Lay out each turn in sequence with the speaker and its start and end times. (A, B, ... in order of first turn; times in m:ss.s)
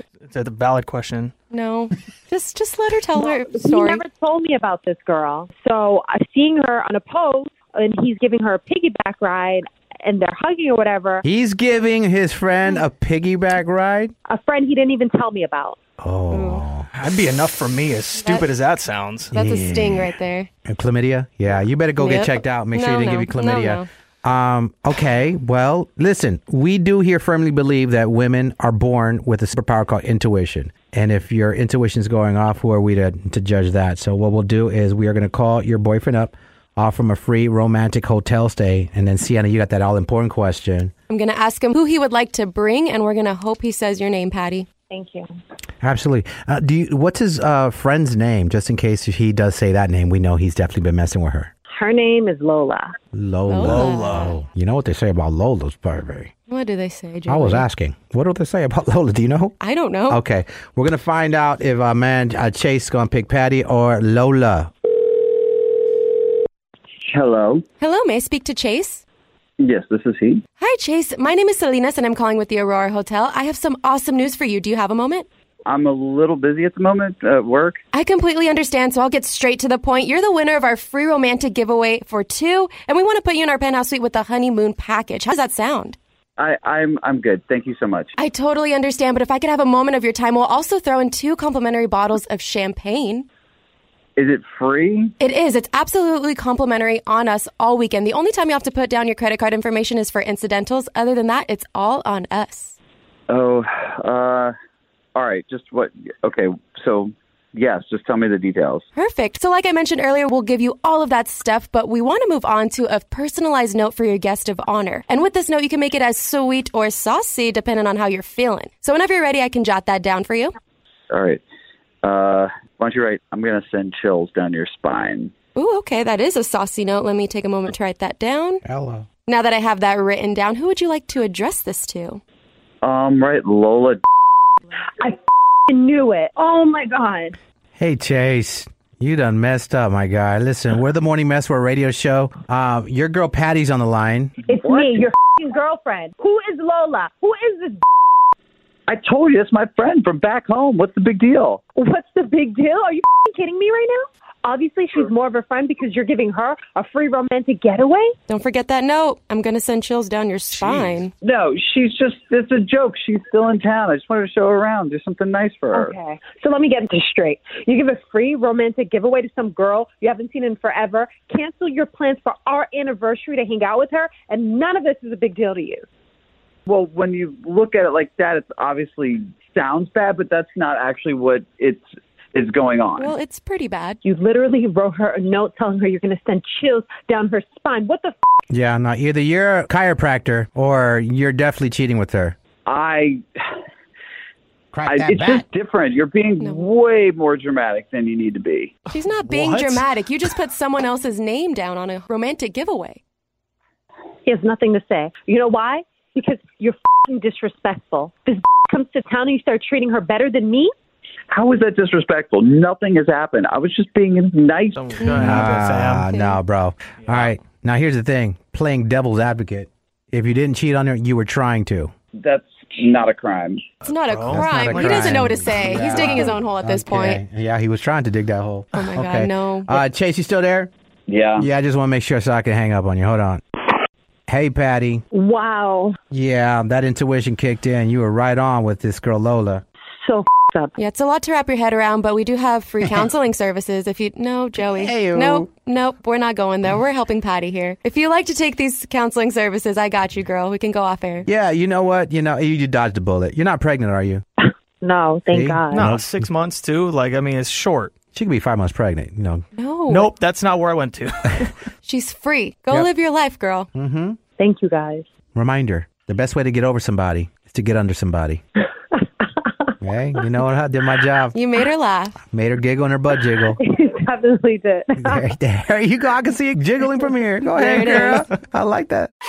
0:00.2-0:01.3 A
0:01.5-0:04.0 B
0:03.2-0:11.2 C
0:11.2-0:14.1 D
0:14.3-0:15.8 C
0:16.0-0:16.9 D
0:16.3-0:16.6 B
0:17.0-0:19.3 A
0:18.2-0:18.5 B
0:19.3-0:20.1 D
0:19.3-0:20.5 B
0:20.6-0:40.9 D
0:22.0-0:23.8 B
0:41.1-0:44.6 B
0:44.9-0:45.3 C
0:45.8-0:51.5 D
0:51.7-0:52.9 C
0:53.1-0:56.3 D
0:53.5-0:54.4 B
0:53.6-0:54.3 A
0:56.5-0:57.6 B
0:57.3-0:59.6 D
0:59.6-1:00.2 B
1:00.1-1:04.7 D
1:07.0-1:07.6 E
1:07.8-1:09.0 B
1:09.6-1:10.4 E
1:10.6-1:15.2 B
1:15.6-1:17.8 E
1:17.9-1:26.0 B
1:26.4-1:28.1 E
1:28.2-1:33.2 B
1:34.2-1:35.1 E
1:35.2-1:42.7 B
1:43.3-1:44.5 E
1:45.1-1:48.8 E
1:49.0-2:00.5 B
2:01.1-2:01.4 E
2:02.0-2:05.3 E
2:05.6-2:08.6 B
2:08.6-2:09.1 D
2:09.2-2:12.2 B
2:12.8-2:14.0 E
2:15.7-2:17.4 C
2:17.8-2:24.3 D
2:24.4-2:25.0 E
2:24.4-2:27.8 C
2:28.9-2:31.6 E
2:31.8-2:38.1 C
2:38.3-2:41.1 B
2:40.6-2:41.0 A
2:41.2-2:46.0 E
2:45.7-2:55.8 C
2:56.7-3:03.1 E
3:03.0-3:04.0 B
3:04.0-3:08.2 C
3:08.5-3:12.3 D
3:12.6-3:13.5 E
3:14.7-3:15.4 D
3:14.8-3:18.8 E
3:16.4-3:16.7 B
3:18.9-3:23.0 B
3:19.3-3:19.8 A
3:24.2-3:30.7 C
3:31.3-3:35.0 E
3:34.7-3:36.1 A
3:35.0-3:35.5 B
3:35.1-3:41.9 D
3:36.0-3:36.4 B
3:37.0-3:37.3 A
3:42.2-3:43.6 E
3:43.8-3:47.2 B
3:43.9-3:46.0 A
3:44.3-3:50.7 D
3:48.7-3:49.8 B
3:51.1-3:51.5 E
3:51.4-3:53.4 D
3:54.3-3:55.0 D
3:55.1-3:56.0 C
3:56.1-3:59.6 D
4:00.0-4:00.7 C
4:00.8-4:11.2 B
4:04.7-4:05.5 D
4:11.2-4:14.2 D
4:14.4-4:15.9 C
4:15.3-4:16.2 D
4:15.7-4:17.9 A
4:18.1-4:19.4 D
4:19.5-4:20.1 B
4:19.9-4:21.5 A
4:21.8-4:23.7 B
4:23.7-4:24.2 D
4:24.4-4:25.1 C
4:25.3-4:28.4 D
4:29.8-4:31.3 D
4:31.3-4:32.2 B
4:32.3-4:33.6 D
4:33.6-4:35.3 C
4:35.0-4:39.1 D
4:37.6-4:38.2 B